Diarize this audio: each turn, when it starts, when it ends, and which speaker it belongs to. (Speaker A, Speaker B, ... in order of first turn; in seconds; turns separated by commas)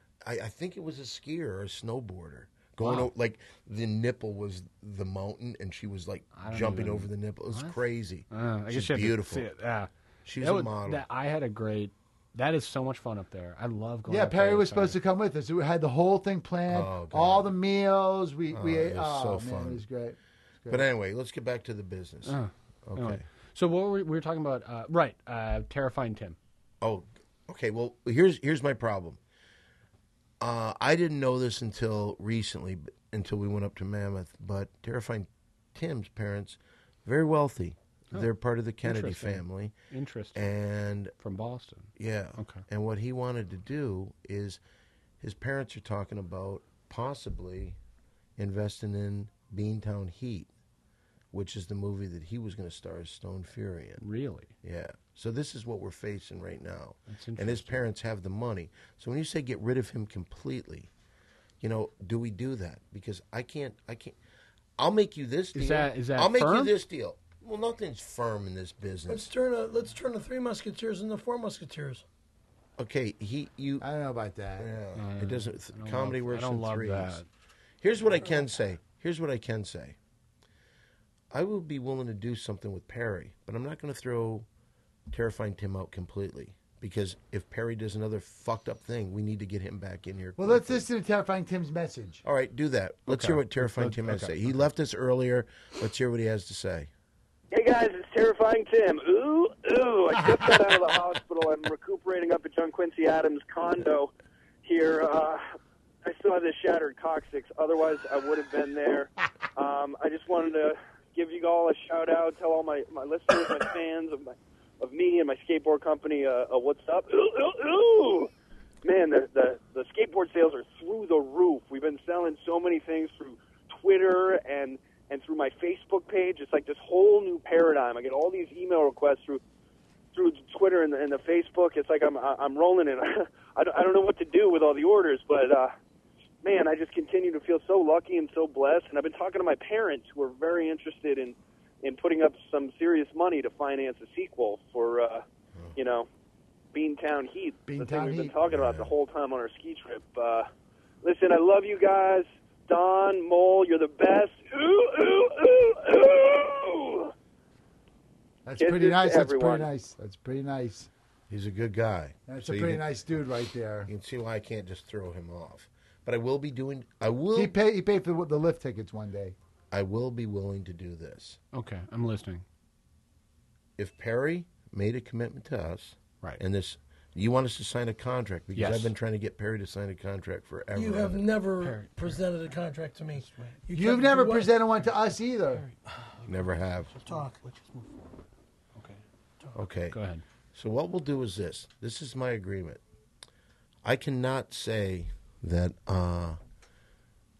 Speaker A: 0.2-9.5, Speaker B: 2.8-3.1, Speaker B: 6.3-15.0, Speaker A: 10.2-11.0, Speaker C: 14.1-20.9, Speaker A: 16.7-17.5, Speaker A: 18.5-19.8, Speaker A: 20.7-23.2, Speaker B: 22.3-26.4, Speaker A: 26.8-29.2, Speaker A: 30.4-39.7, Speaker B: 38.8-40.5, Speaker A: 40.4-41.1, Speaker B: 41.2-42.6, Speaker A: 42.0-44.6, Speaker A: 45.2-47.8, Speaker A: 48.4-50.5, Speaker A: 51.3-54.0, Speaker B: 54.0-54.5, Speaker A: 54.6-60.9, Speaker B: 57.1-57.8, Speaker A: 61.6-64.2, Speaker A: 64.8-69.3, Speaker B: 65.5-66.7, Speaker D: 69.1-72.0, Speaker A: 72.8-73.9, Speaker C: 73.8-74.7, Speaker A: 74.6-77.2, Speaker B: 75.0-77.3, Speaker A: 77.8-80.0, Speaker A: 81.3-84.5, Speaker A: 85.1-90.8, Speaker C: 90.4-92.2, Speaker A: 92.2-96.9, Speaker B: 93.1-94.6, Speaker E: 97.5-104.1, Speaker E: 104.6-105.4, Speaker E: 106.0-118.3, Speaker E: 118.8-129.4, Speaker E: 130.1-135.7, Speaker E: 136.4-145.2, Speaker E: 145.8-146.1, Speaker E: 146.7-150.5, Speaker C: 147.7-148.3, Speaker A: 148.4-148.9, Speaker E: 151.0-157.1, Speaker C: 158.4-160.9, Speaker E: 158.6-159.7, Speaker A: 161.3-162.9, Speaker C: 162.3-163.9, Speaker A: 163.9-167.6, Speaker C: 167.3-169.4, Speaker A: 169.7-171.4, Speaker B: 171.5-172.4, Speaker A: 173.8-181.3, Speaker B: 178.6-178.9, Speaker D: 180.7-184.6, Speaker B: 181.6-182.2, Speaker B: 183.2-183.5, Speaker C: 183.7-185.7, Speaker B: 185.5-189.0, Speaker A: 186.3-186.9, Speaker D: 187.1-187.4, Speaker A: 189.6-190.0, Speaker B: 189.9-190.2, Speaker A: 190.5-192.8, Speaker A: 193.8-196.4